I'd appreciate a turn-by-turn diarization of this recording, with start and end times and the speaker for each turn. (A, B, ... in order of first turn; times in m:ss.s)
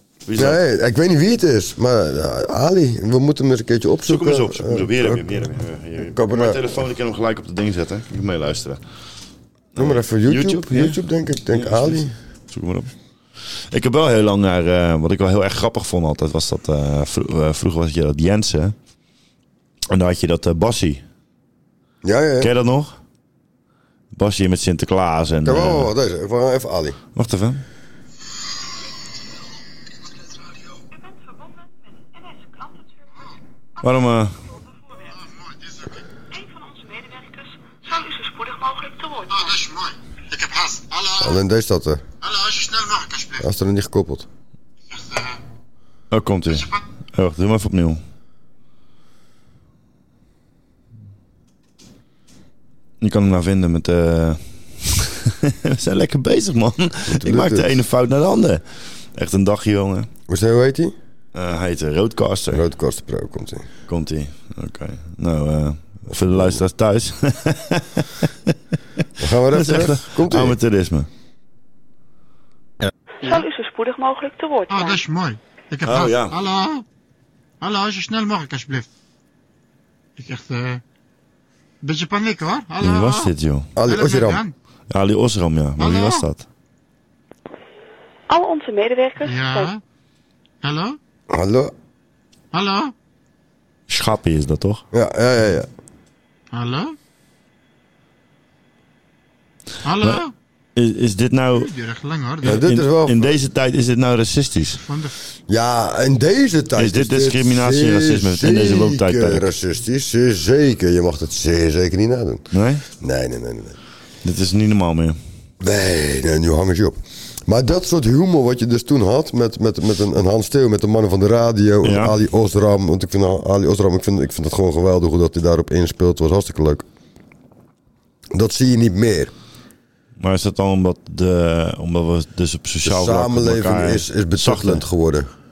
0:00.2-0:00.6 A
0:00.3-0:05.2 B
0:04.0-0:08.8 A
0:06.1-0:06.6 B
0:09.7-0:11.0 A
0:09.8-0:12.1 B
0:11.5-0:12.9 A
0:13.7-0:18.7 A
0:19.9-0:21.0 A
0:22.0-0:22.5 B
0:22.4-0:23.0 A
0:24.1-0:25.9 A
0:25.4-0:27.0 B
0:27.1-0:27.6 A
0:33.8-0:34.4 A
0:36.4-0:39.4 C
0:39.3-0:41.4 D
0:41.2-0:42.0 B
0:42.2-0:43.4 D
0:43.4-0:44.3 B
0:44.9-0:45.4 D
0:46.1-0:48.0 A
0:46.5-0:46.8 D
0:53.0-1:00.1 A
0:57.1-0:57.8 B
1:00.3-1:00.9 B
1:01.3-1:02.6 A
1:02.5-1:03.6 B
1:03.9-1:08.6 A
1:06.1-1:06.6 B
1:09.2-1:10.6 B
1:09.2-1:11.1 A
1:13.2-1:15.0 C
1:14.7-1:16.8 D
1:15.8-1:16.4 A
1:17.6-1:18.9 D
1:20.2-1:20.8 D
1:21.8-1:24.5 D
1:22.8-1:23.7 A
1:23.8-1:24.4 B
1:24.9-1:26.4 A
1:25.8-1:26.2 D
1:28.3-1:29.7 C
1:29.2-1:29.8 D
1:30.6-1:31.0 D
1:31.3-1:31.7 B
1:32.5-1:32.9 D
1:33.9-1:34.8 A
1:34.9-1:35.7 B
1:36.5-1:37.0 D
1:39.8-1:40.3 D
1:40.8-1:41.7 A
1:41.5-1:42.6 D
1:42.4-1:43.4 B
1:42.4-1:44.8 A
1:44.8-1:45.1 D
1:45.5-1:52.4 B
1:46.8-1:49.5 A
1:52.5-1:52.8 A
1:53.0-1:53.8 B
1:54.2-1:55.2 A
1:55.6-2:06.8 B
2:01.8-2:02.2 A
2:08.3-2:09.3 B
2:10.2-2:14.8 A
2:12.8-2:15.3 B